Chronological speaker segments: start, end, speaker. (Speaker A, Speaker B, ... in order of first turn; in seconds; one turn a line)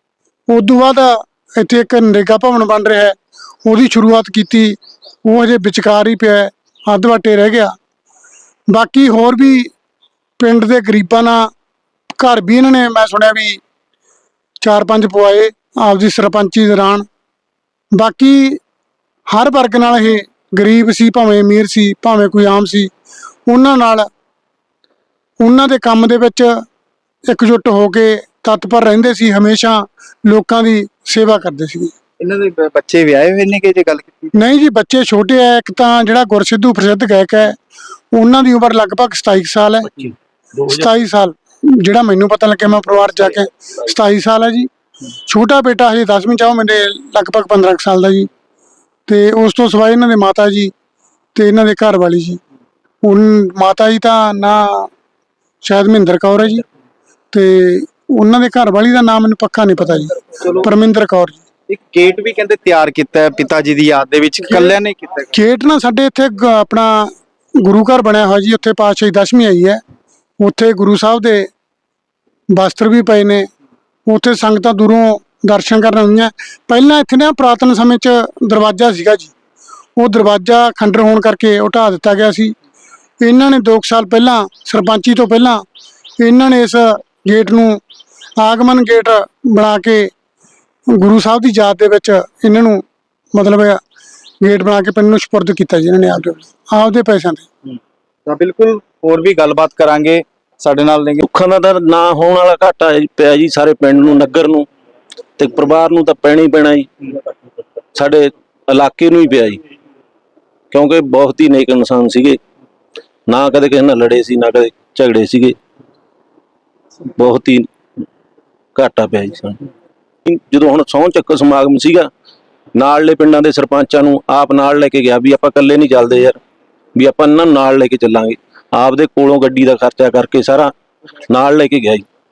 Speaker A: 0.5-7.7
Speaker A: 8.7-9.7
Speaker A: 10.4-11.5
Speaker A: 12.2-13.6
Speaker A: 14.6-17.1
Speaker A: 17.9-18.6
Speaker A: 19.3-22.9
Speaker A: 23.5-24.1
Speaker A: 25.4-26.6
Speaker A: 27.3-31.9
Speaker B: 32.2-34.3
Speaker A: 34.3-37.6
Speaker A: 38.1-39.9
Speaker A: 40.6-44.7
Speaker A: 45.2-48.3
Speaker A: 49.1-50.7
Speaker A: 51.3-52.4
Speaker A: 53.0-54.9
Speaker A: 55.6-56.6
Speaker A: 57.3-61.4
Speaker B: 60.4-60.7
Speaker B: 61.7-65.3
Speaker A: 65.3-67.1
Speaker A: 67.6-69.8
Speaker A: 70.4-71.5
Speaker A: 72.5-73.5
Speaker A: 74.1-79.3
Speaker A: 80.0-82.5
Speaker A: 83.2-85.6
Speaker A: 86.2-87.8
Speaker A: 88.4-90.1
Speaker A: 90.9-92.8
Speaker A: 93.3-93.8
Speaker A: 94.4-97.5
Speaker B: 98.2-101.2
Speaker C: 101.2-104.7
Speaker C: 105.4-106.9
Speaker C: 107.9-109.6
Speaker C: 110.7-112.4
Speaker C: 113.3-115.5
Speaker C: 117.1-117.7
Speaker C: 118.7-119.6
Speaker C: 120.3-122.1
Speaker C: 122.7-126.4
Speaker C: 127.0-130.7
Speaker C: 131.2-132.0